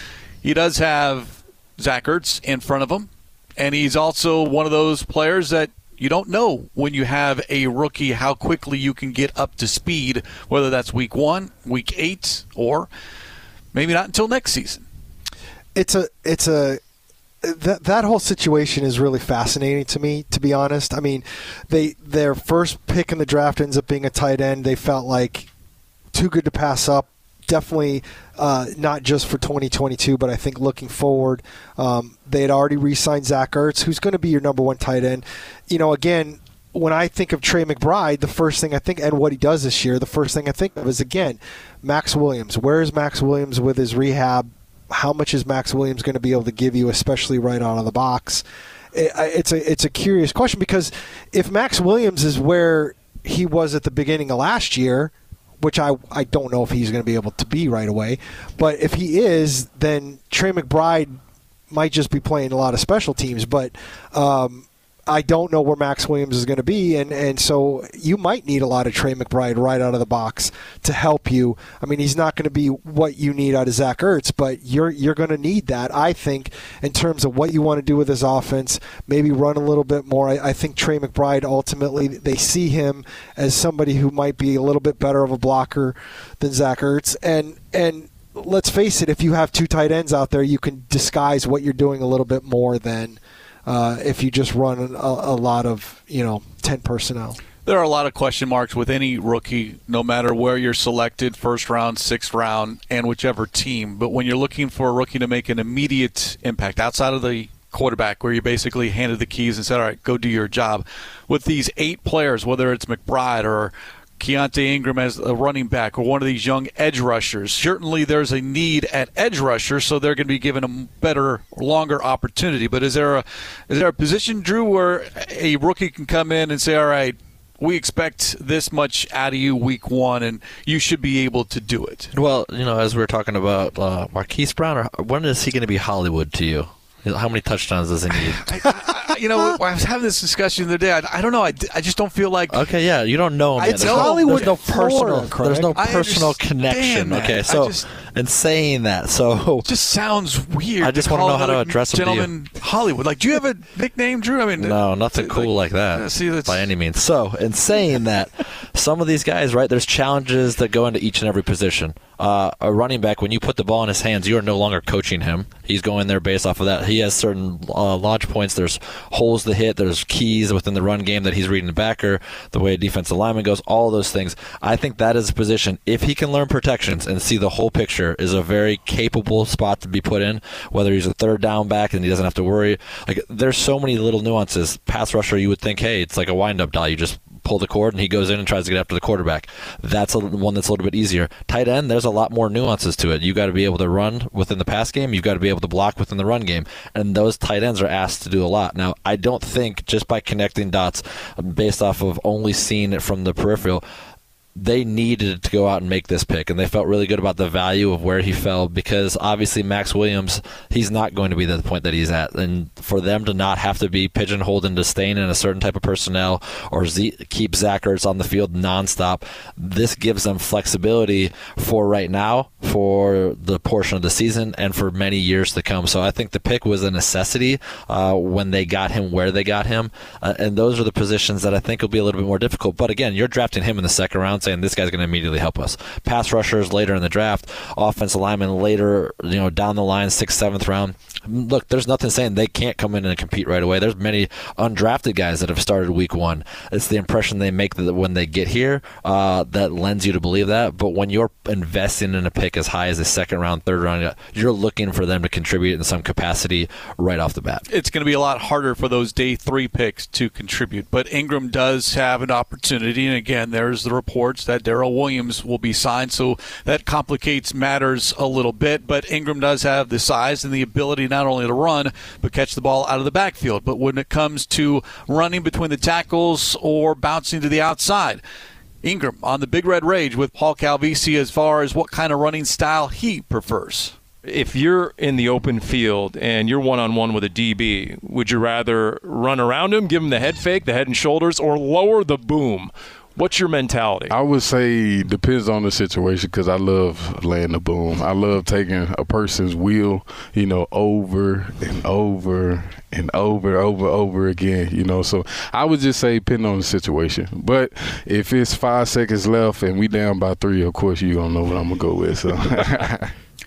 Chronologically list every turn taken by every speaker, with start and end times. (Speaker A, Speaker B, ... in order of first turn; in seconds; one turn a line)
Speaker A: 0.4-12.9
Speaker A: 13.7-14.8
Speaker B: 15.7-16.8
Speaker B: 17.4-25.5
Speaker B: 26.1-61.1
Speaker B: 61.7-97.4
Speaker A: 97.6-132.1
Speaker C: 132.1-138.5
Speaker A: 138.4-142.6
Speaker C: 142.5-149.7
Speaker A: 143.6-144.6
Speaker B: 143.6-145.8
Speaker A: 145.8-147.8
Speaker A: 149.6-156.7
Speaker C: 150.8-152.3
Speaker C: 154.6-203.8
Speaker C: 204.6-257.6
Speaker A: 257.7-278.2
Speaker A: 278.8-283.9
Speaker D: 284.2-294.1
Speaker E: 294.1-313.1